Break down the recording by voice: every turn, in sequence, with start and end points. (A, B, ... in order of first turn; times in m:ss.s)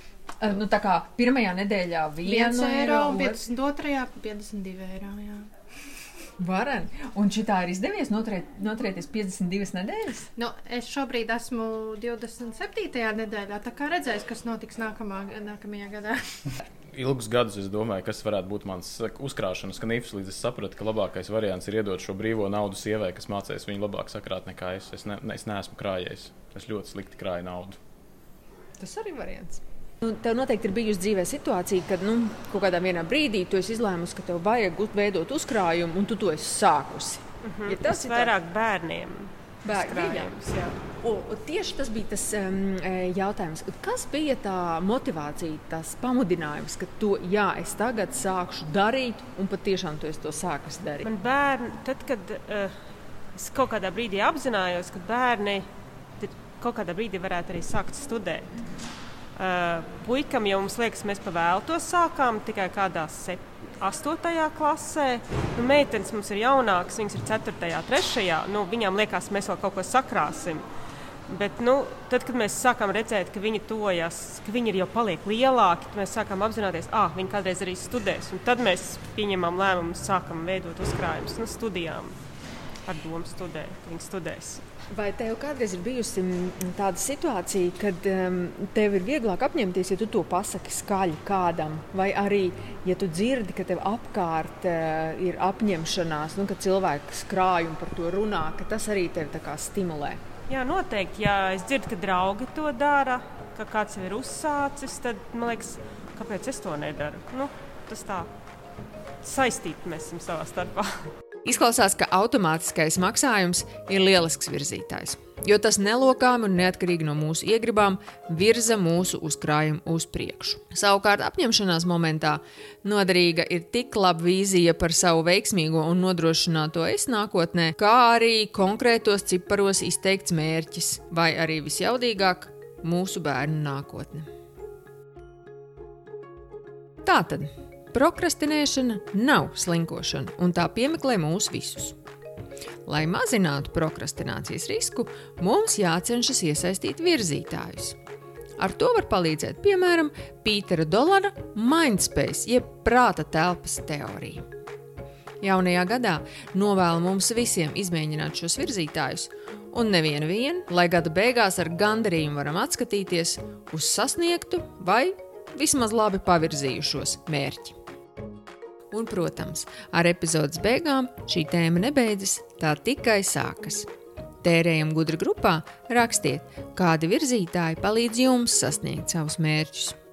0:00.4-0:03.4 A
0:02.2-0:05.5 B
0:06.4-0:10.3 A
0:10.4-0:16.3 B
0:16.9-0:27.8 C
0:28.8-0:38.3 A
0:37.4-0:40.8 D
0:39.6-0:40.4 A
0:41.0-0:51.1 A
0:51.0-0:52.7 D
0:53.3-0:55.7 D
0:56.2-0:58.6 D
0:59.3-1:10.6 D
1:11.3-1:22.2 D
1:22.8-1:24.6 D
1:24.9-1:40.2 A
1:40.5-1:48.3 D
1:49.2-1:51.1 D
1:51.4-2:14.3 A
2:17.0-2:22.0 A
2:22.8-2:28.0 A
2:28.6-2:34.4 A
2:35.4-2:47.8 A
2:48.9-2:53.9 A
2:54.4-3:00.0 A